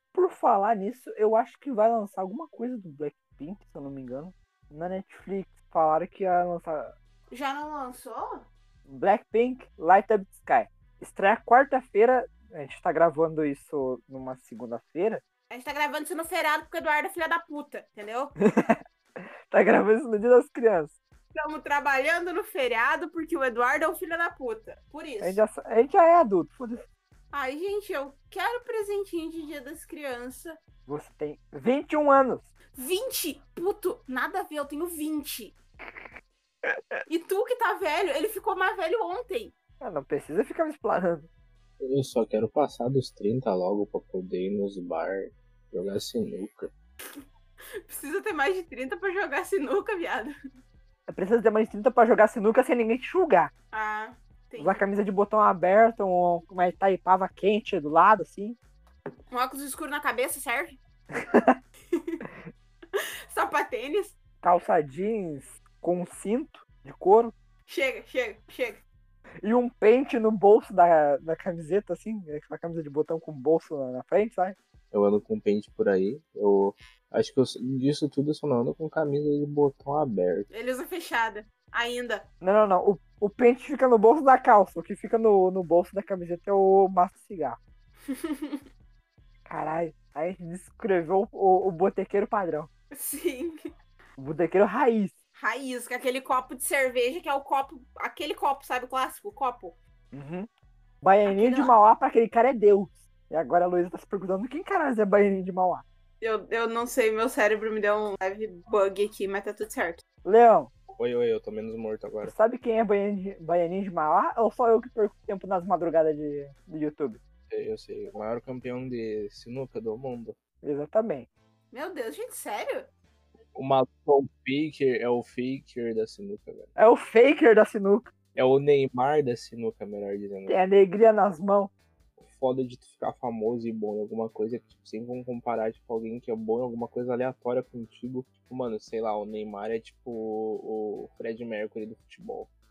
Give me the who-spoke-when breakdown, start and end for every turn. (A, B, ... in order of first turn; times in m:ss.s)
0:00.1-0:06.9 A
0:07.3-0:08.5 B
0:08.9-0:15.2 A
0:15.5-0:18.3 B
0:18.4-0:21.0 A
0:21.3-0:25.4 B
0:25.2-0:26.9 A
0:27.3-0:30.6 B
0:30.9-0:32.5 A
0:32.8-0:35.5 B
0:36.6-0:37.0 A
0:37.1-0:39.5 B
0:39.8-0:41.3 A
0:41.8-0:46.7 C
0:47.8-0:50.3 B
0:51.1-0:53.5 A
0:53.7-0:54.8 B
0:54.6-0:58.6 A
0:59.3-1:00.8 B
1:01.1-1:01.6 A
1:01.9-1:02.3 B
1:02.9-1:04.1 B
1:04.4-1:07.4 A
1:07.7-1:08.8 B
1:09.4-1:14.6 A
1:14.9-1:20.5 C
1:20.5-1:22.3 B
1:22.4-1:27.6 A
1:28.1-1:28.6 B
1:29.5-1:32.7 A
1:32.9-1:33.6 B
1:34.2-1:35.2 A
1:35.4-1:39.8 B
1:40.1-1:40.5 A
1:41.0-1:45.8 A
1:41.3-1:41.8 B
1:46.2-1:50.0 B
1:50.2-1:50.7 A
1:51.0-1:52.3 C
1:52.2-1:57.2 A
1:57.5-2:00.4 C
2:00.6-2:01.3 A
2:01.7-2:02.9 B
2:03.6-2:06.7 C
2:06.8-2:08.1 A
2:08.4-2:10.6 C
2:10.5-2:11.7 A
2:12.2-2:22.5 C